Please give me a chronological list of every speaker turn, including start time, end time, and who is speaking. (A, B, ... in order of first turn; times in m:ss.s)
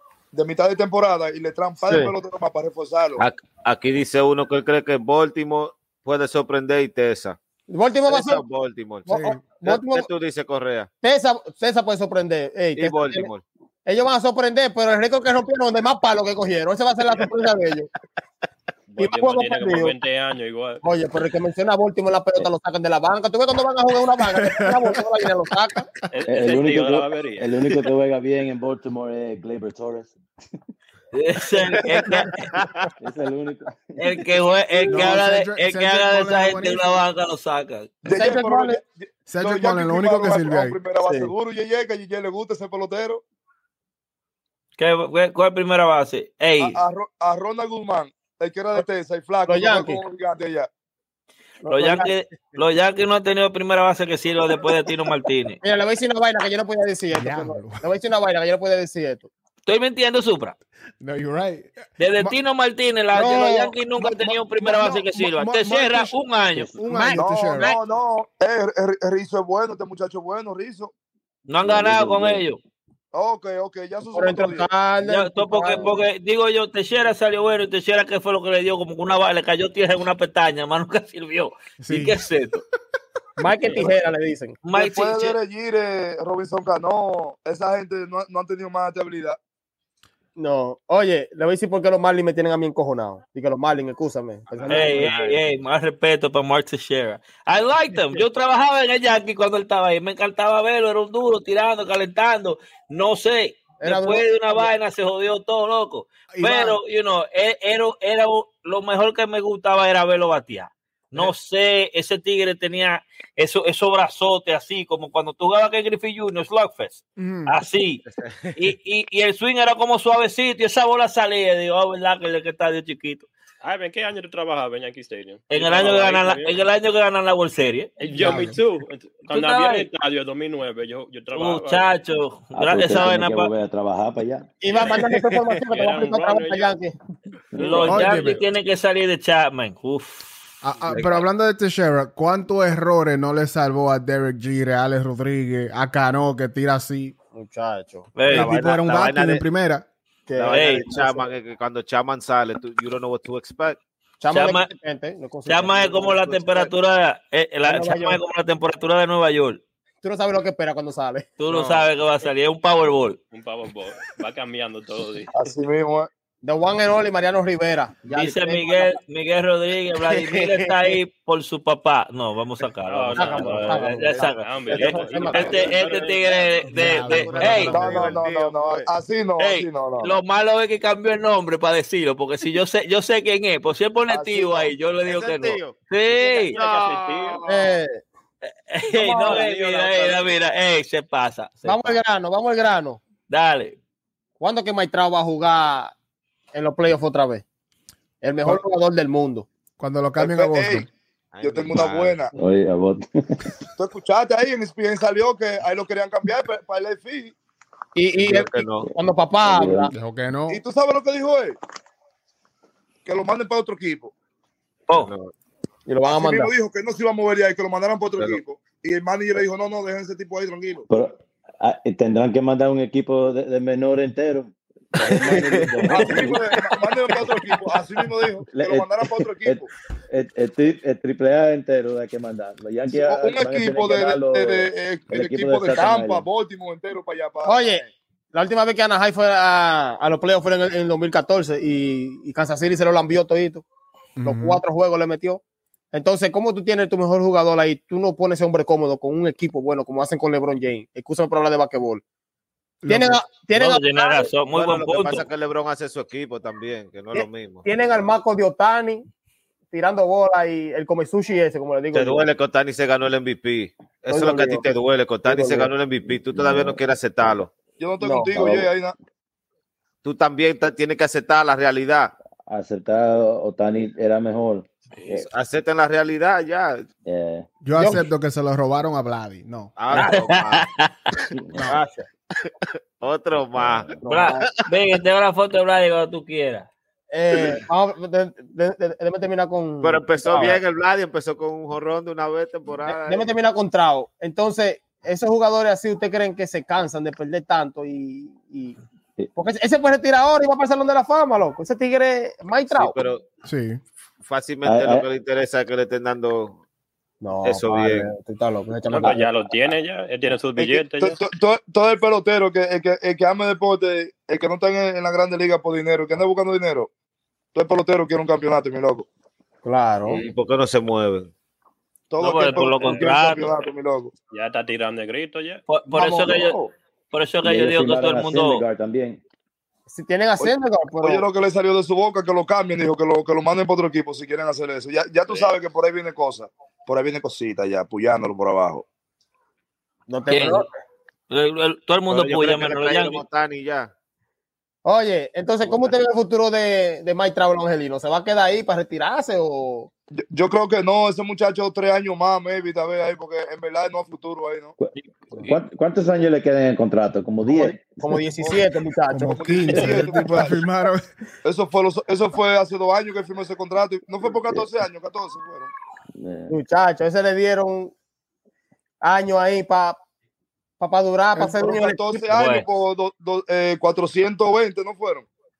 0:00.3-0:03.2 A
0:01.8-0:02.1 B
0:03.2-0:07.4 C
0:07.7-0:08.4 B
0:08.1-0:10.9 C
0:09.0-0:10.1 B
0:09.1-0:09.4 D
0:11.0-0:13.3 B
0:12.8-0:13.4 C
0:13.8-0:17.9 B
0:18.9-0:20.8 E
0:19.0-0:20.0 B
0:20.8-0:25.9 B
0:24.3-0:25.0 D
0:26.1-0:27.5 E
0:26.2-0:30.2 F
0:31.1-0:32.5 G
0:32.6-0:32.9 C
0:33.0-0:34.1 F
0:34.0-0:37.9 G
0:34.9-0:37.0 D
0:38.0-0:43.2 A
0:38.1-0:38.8 B
0:39.3-0:40.8 D
0:41.0-0:41.3 B
0:44.8-0:46.8 G
0:46.6-0:50.7 A
0:49.4-0:50.0 B
0:51.6-0:52.5 B
0:51.7-0:55.6 G
0:55.6-0:59.3 B
0:57.1-0:57.8 D
0:59.7-1:00.6 G
1:01.0-1:02.4 D
1:02.0-1:06.7 G
1:03.1-1:03.8 B
1:04.6-1:07.7 D
1:06.9-1:07.8 B
1:07.1-1:10.9 A
1:11.5-1:12.6 G
1:11.6-1:12.4 F
1:13.1-1:14.7 A
1:14.1-1:16.0 B
1:15.0-1:22.6 G
1:21.8-1:22.2 D
1:23.4-1:24.6 B
1:24.6-1:25.4 G
1:24.7-1:29.4 A
1:30.4-1:35.0 B
1:34.6-1:35.4 C
1:34.7-1:58.0 G
1:43.8-1:44.7 B
1:46.3-1:46.8 D
1:57.2-1:57.5 D
1:58.1-1:58.6 C
1:58.5-2:03.3 G
2:03.6-2:06.6 E
2:05.5-2:07.9 G
2:08.0-2:11.9 E
2:08.2-2:08.6 D
2:09.3-2:09.9 G
2:11.3-2:13.5 G
2:12.5-2:14.5 F
2:14.6-2:16.9 B
2:14.7-2:15.0 E
2:14.8-2:15.6 C
2:15.7-2:16.8 E
2:17.5-2:17.8 F
2:17.6-2:18.1 E
2:17.6-2:20.3 G
2:17.9-2:18.4 D
2:20.6-2:27.1 D
2:27.3-2:28.2 B
2:28.2-2:28.5 G
2:28.3-2:29.8 D
2:28.3-2:29.4 C
2:30.3-2:31.3 B
2:30.4-2:33.8 C
2:30.5-2:30.8 G
2:34.2-2:36.7 B
2:34.3-2:34.7 G
2:35.5-2:39.6 G
2:37.6-2:38.2 B
2:40.0-2:41.4 B
2:41.4-2:43.2 G
2:43.3-2:45.3 E
2:45.3-2:46.1 A
2:46.4-2:48.9 B
2:48.1-2:57.8 G
2:50.6-2:50.9 B
2:52.9-2:55.8 E
2:53.2-2:55.7 B
2:54.7-2:58.8 C
2:56.7-2:58.2 D
2:57.5-3:00.1 A
2:59.4-3:06.6 G
3:04.1-3:04.6 A
3:04.3-3:07.8 C
3:06.5-3:07.4 E
3:07.5-3:08.0 B
3:08.4-3:12.0 G
3:09.2-3:10.2 C
3:11.6-3:13.0 B
3:13.3-3:13.8 G
3:14.4-3:15.9 B
3:16.5-3:17.4 B
3:18.2-3:19.5 B
3:19.8-3:20.9 D
3:20.2-3:20.9 A
3:21.3-3:22.2 C
3:21.4-3:22.3 A
3:22.3-3:23.4 F
3:23.8-3:27.3 A
3:28.0-3:29.9 B
3:28.2-3:28.9 C
3:29.4-3:29.9 F
3:29.9-3:30.6 D
3:30.5-3:31.6 A
3:33.0-3:34.1 A
3:34.9-3:35.3 C
3:35.9-3:36.5 B
3:36.1-3:40.8 A
3:40.9-3:46.4 F
3:45.0-3:46.3 C
3:45.9-3:49.7 A
3:47.1-3:47.5 C
3:48.5-3:56.2 F
3:53.0-3:57.9 A
3:57.4-4:03.6 B
4:04.2-4:04.6 D
4:04.2-4:05.4 B
4:05.9-4:12.0 B
4:12.8-4:13.2 D
4:12.9-4:14.3 B
4:13.5-4:15.2 G
4:14.5-4:17.6 C
4:17.1-4:19.0 B
4:19.7-4:22.3 B
4:21.9-4:27.5 C
4:24.1-4:24.6 B
4:25.2-4:25.7 B
4:26.0-4:27.4 F
4:27.8-4:28.9 A
4:28.0-4:28.4 B
4:28.4-4:28.7 F
4:30.0-4:32.1 C
4:32.5-4:35.3 F
4:35.1-4:36.9 C
4:37.0-4:37.5 F
4:37.6-4:39.7 D
4:37.7-4:38.0 B
4:39.8-4:40.7 C
4:39.9-4:40.9 G
4:41.5-4:41.8 D
4:41.7-4:42.1 B
4:43.0-4:44.5 C
4:43.6-4:43.9 F
4:44.0-4:44.5 B
4:44.0-4:46.7 G
4:47.1-4:50.6 B
4:49.8-4:53.3 C
4:52.9-4:58.8 B
4:59.4-5:02.9 B
5:02.7-5:03.2 C
5:03.4-5:03.8 D
5:04.2-5:06.6 C
5:04.6-5:05.0 F
5:07.2-5:09.3 B
5:07.4-5:08.1 C
5:08.9-5:11.2 E
5:10.6-5:16.9 A
5:17.5-5:19.1 A
5:19.6-5:20.2 B
5:20.0-5:21.3 C
5:22.1-5:24.1 A
5:22.2-5:23.5 G
5:24.3-5:25.6 E
5:25.7-5:26.6 G
5:25.9-5:26.7 A
5:27.1-5:28.6 G
5:27.4-5:29.2 F
5:29.9-5:31.2 B
5:30.4-5:38.8 A
5:35.3-5:35.5 E
5:40.1-5:40.7 B
5:40.3-5:40.6 G
5:41.3-5:43.2 G
5:42.1-5:43.9 C
5:44.8-5:49.9 B
5:45.6-5:45.9 C
5:50.3-5:54.7 A
5:54.8-5:58.0 F
5:57.5-5:59.8 B
5:59.1-6:01.0 D
5:59.3-6:00.6 A
6:01.4-6:05.7 A
6:06.2-6:06.6 F
6:06.5-6:07.9 B
6:09.0-6:10.0 B
6:10.8-6:12.2 B
6:11.4-6:15.2 A
6:12.3-6:12.7 G